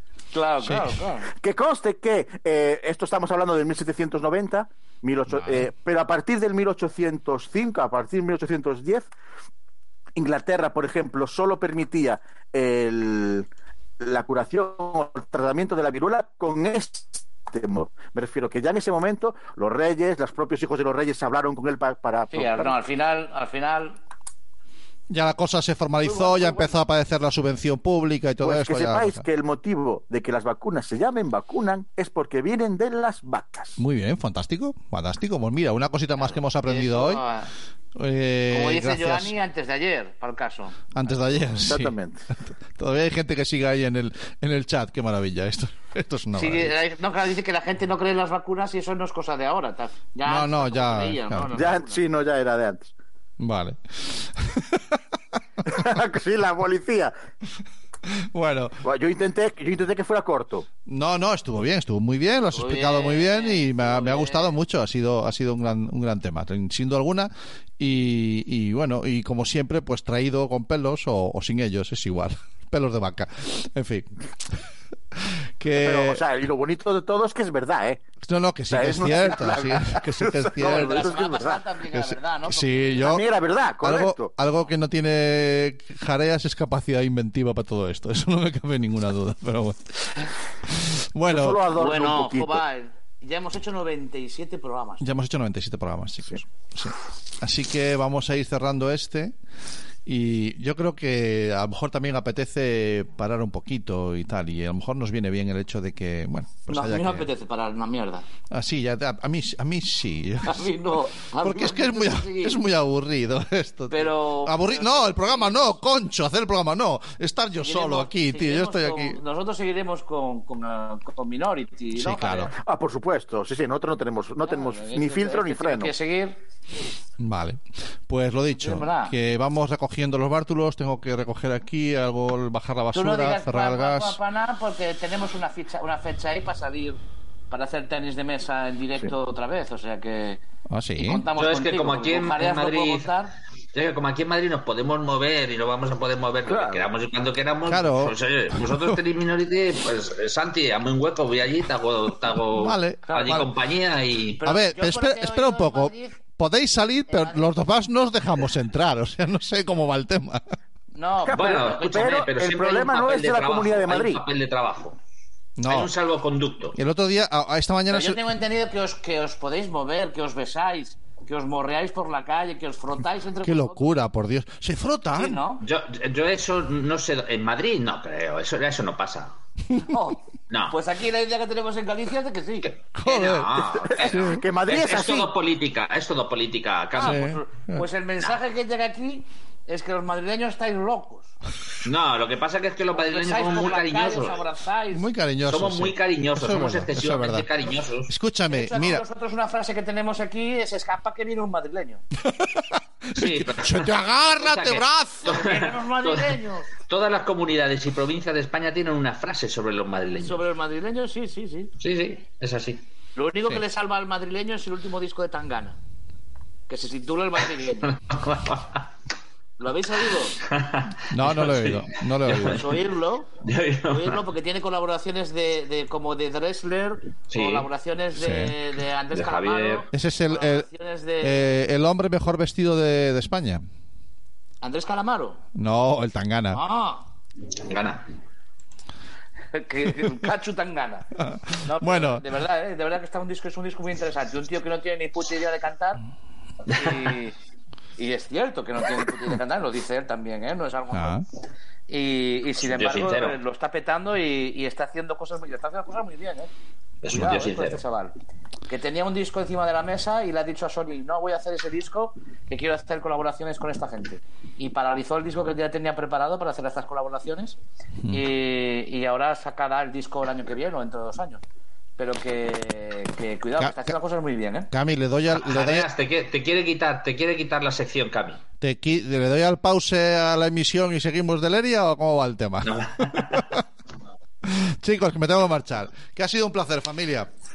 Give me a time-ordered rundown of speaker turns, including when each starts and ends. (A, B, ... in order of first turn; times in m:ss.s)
0:00.3-0:01.3 A
0:00.6-0:01.0 B
0:01.4-0:09.1 C
0:05.4-0:05.7 B
0:10.2-0:13.5 C
0:14.0-0:22.8 C
0:22.3-0:24.0 A
0:25.1-0:29.2 B
0:26.0-0:26.8 A
0:28.4-0:33.8 C
0:33.8-0:37.2 B
0:36.2-0:37.5 A
0:38.0-0:39.3 B
0:38.5-0:41.4 A
0:40.9-0:46.7 B
0:41.6-0:42.3 C
0:46.3-0:52.0 A
0:50.2-0:51.5 B
0:51.5-0:52.9 C
0:53.4-0:55.0 B
0:55.6-0:57.1 C
0:58.1-0:58.8 B
0:58.8-1:00.7 C
1:00.9-1:14.6 B
1:02.5-1:04.6 A
1:15.2-1:16.2 B
1:15.8-1:18.0 C
1:18.2-1:21.1 B
1:18.7-1:21.6 C
1:20.6-1:23.2 A
1:21.9-1:23.2 B
1:23.0-1:24.3 C
1:23.8-1:30.1 B
1:30.6-1:31.6 B
1:31.3-1:32.6 C
1:31.7-1:35.1 A
1:35.0-1:39.3 B
1:40.1-1:47.3 B
1:46.7-1:48.3 A
1:48.5-1:50.7 B
1:50.4-1:52.6 A
1:51.4-1:59.2 B
1:53.9-1:55.8 A
1:57.6-2:02.5 A
2:02.0-2:02.5 B
2:02.5-2:05.9 C
2:04.4-2:06.4 A
2:07.2-2:14.2 B
2:08.6-2:09.2 A
2:12.9-2:17.0 A
2:17.5-2:20.4 A
2:20.7-2:21.3 B
2:21.0-2:23.3 A
2:21.4-2:23.1 D
2:23.7-2:34.5 D
2:26.5-2:26.9 C
2:27.7-2:29.0 B
2:32.5-2:33.5 B
2:33.1-2:33.4 A
2:34.4-2:36.3 A
2:34.4-2:40.4 B
2:37.1-2:37.5 A
2:40.9-2:42.1 A
2:41.2-2:44.2 C
2:41.3-2:45.0 D
2:45.6-2:45.9 B
2:45.7-2:46.8 D
2:46.8-2:48.2 B
2:47.9-2:54.0 A
2:53.4-2:55.4 B
2:55.1-2:55.6 A
2:55.6-2:59.3 D
2:59.7-3:00.0 B
2:59.8-3:02.7 A
3:00.5-3:00.8 D
3:02.7-3:07.2 D
3:03.0-3:04.6 B
3:03.8-3:05.3 C
3:07.0-3:11.3 A
3:07.0-3:07.8 B
3:11.8-3:14.4 D
3:12.9-3:15.1 A
3:14.9-3:17.5 B
3:15.5-3:18.1 D
3:18.1-3:19.0 B
3:18.5-3:22.0 A
3:22.2-3:25.3 B
3:23.1-3:30.4 D
3:25.2-3:26.7 A
3:30.2-3:31.7 A
3:31.8-3:32.8 D
3:33.2-3:35.8 A
3:36.7-3:38.0 A
3:38.1-3:38.9 D
3:39.6-3:40.4 A
3:40.4-3:42.6 D
3:41.1-3:42.7 B
3:42.3-3:43.3 A
3:43.4-3:44.2 D
3:43.8-3:51.6 A
3:47.3-3:47.7 D
3:48.2-3:48.5 B
3:49.1-3:49.9 D
3:49.9-3:50.7 B
3:51.2-3:53.6 B
3:54.6-3:55.4 A
3:55.6-3:56.6 B
3:56.5-3:57.1 A
3:57.5-3:58.1 D
3:59.5-4:01.1 A
4:01.2-4:02.3 B
4:01.6-4:06.0 A
4:06.7-4:07.4 A
4:08.0-4:11.2 A
4:10.9-4:11.2 B
4:11.9-4:16.5 A
4:12.6-4:13.4 D
4:17.0-4:17.8 D
4:17.1-4:18.1 A
4:18.7-4:27.6 A
4:28.1-4:31.4 A
4:32.0-4:34.7 A
4:33.6-4:33.9 B
4:34.7-4:35.9 B
4:35.3-4:38.4 D
4:38.6-4:43.6 B
4:42.6-4:43.6 D
4:44.4-4:47.3 B